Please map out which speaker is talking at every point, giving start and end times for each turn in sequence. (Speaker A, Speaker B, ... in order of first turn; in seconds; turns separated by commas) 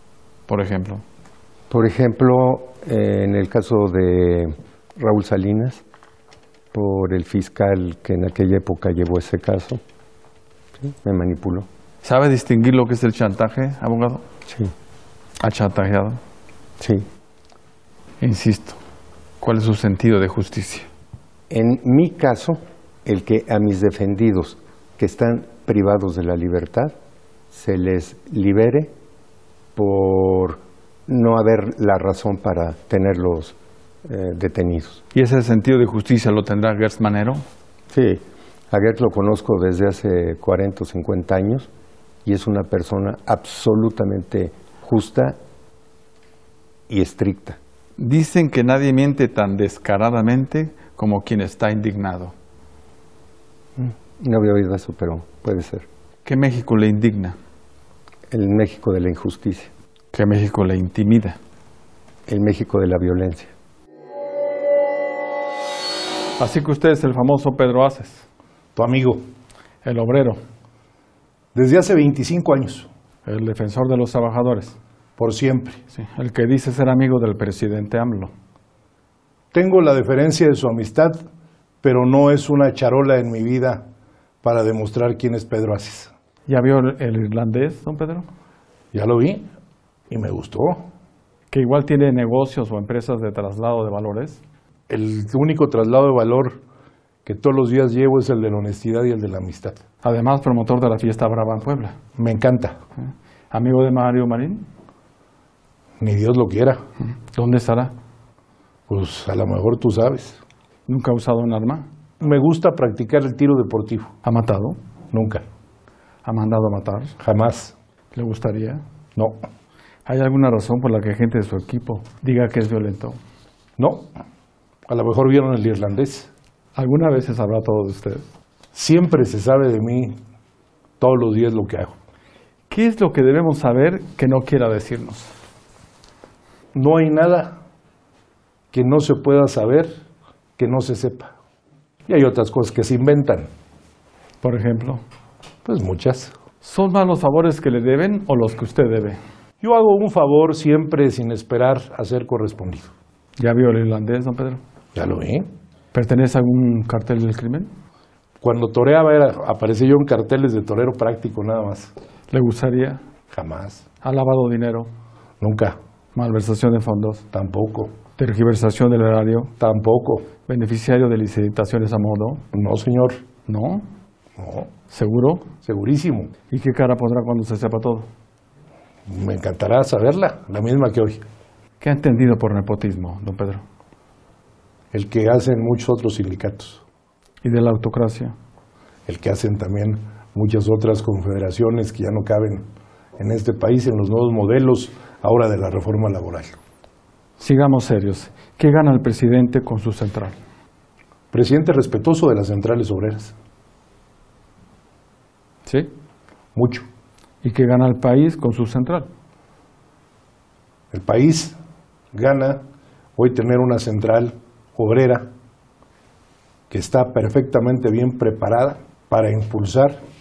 Speaker A: 0.5-1.0, Speaker B: 1.7-5.8, Speaker B: 6.7-9.8, Speaker B: 10.8-11.7, Speaker A: 12.0-14.2, Speaker A: 15.4-16.2, Speaker B: 16.8-17.1, Speaker A: 18.2-18.8, Speaker A: 19.4-20.9, Speaker B: 21.5-26.9, Speaker B: 27.5-28.9, Speaker B: 29.8-33.5, Speaker B: 34.1-35.0, Speaker A: 35.1-37.4, Speaker B: 37.9-41.7, Speaker B: 42.2-45.4, Speaker B: 46.9-47.6, Speaker A: 48.0-52.3, Speaker B: 53.8-55.9, Speaker A: 56.2-57.4, Speaker B: 58.3-59.7, Speaker A: 60.1-61.4, Speaker B: 62.3-63.5, Speaker A: 66.4-68.2, Speaker C: 68.8-69.2, Speaker A: 69.8-70.4, Speaker C: 71.5-72.9, Speaker A: 73.3-74.8, Speaker C: 75.2-75.8, Speaker A: 75.9-78.3, Speaker C: 79.5-81.2, Speaker C: 81.8-83.9, Speaker C: 84.4-86.1, Speaker A: 86.5-88.3, Speaker C: 88.9-89.5, Speaker C: 90.1-90.8, Speaker A: 91.5-94.4, Speaker C: 94.9-96.6, Speaker C: 97.2-99.8, Speaker A: 100.0-101.9, Speaker C: 102.2-102.8, Speaker A: 103.5-104.6, Speaker C: 106.0-106.8, Speaker A: 107.1-107.9, Speaker C: 108.9-110.4, Speaker A: 110.9-111.8, Speaker C: 112.2-114.1, Speaker A: 114.2-114.8, Speaker C: 115.1-115.4, Speaker A: 116.2-117.1, Speaker C: 117.2-117.7, Speaker A: 118.1-118.8, Speaker A: 120.1-123.2, Speaker C: 123.8-124.1, Speaker C: 124.9-126.3, Speaker A: 126.8-128.2, Speaker C: 128.7-130.2, Speaker C: 131.0-131.9, Speaker A: 132.7-135.3, Speaker C: 136.7-137.6, Speaker C: 138.7-139.9, Speaker C: 140.6-141.3, Speaker C: 142.1-143.5, Speaker A: 144.4-145.0, Speaker C: 145.7-146.3, Speaker A: 146.6-149.2, Speaker C: 149.6-152.9, Speaker A: 153.4-154.6, Speaker C: 154.9-155.5, Speaker A: 155.9-157.7, Speaker C: 158.4-161.9, Speaker A: 162.3-163.0, Speaker C: 163.3-163.8, Speaker A: 164.0-164.9, Speaker C: 165.4-165.8, Speaker A: 166.2-167.2, Speaker C: 167.3-167.9, Speaker A: 168.2-169.5, Speaker C: 169.6-170.3, Speaker A: 170.4-172.4, Speaker C: 172.5-173.2, Speaker A: 173.5-173.8, Speaker C: 174.4-174.7, Speaker A: 174.9-175.5, Speaker C: 175.6-176.3, Speaker A: 176.5-178.1, Speaker C: 179.1-181.2, Speaker A: 181.8-183.6, Speaker C: 184.9-186.8, Speaker A: 187.4-188.3, Speaker C: 189.1-192.7, Speaker C: 193.2-196.6, Speaker A: 197.4-200.4, Speaker C: 201.3-203.3, Speaker A: 205.7-205.9, Speaker C: 206.6-206.9, Speaker A: 207.4-209.1, Speaker C: 210.9-211.6, Speaker C: 212.1-212.6, Speaker C: 213.2-215.3, Speaker C: 216.7-220.0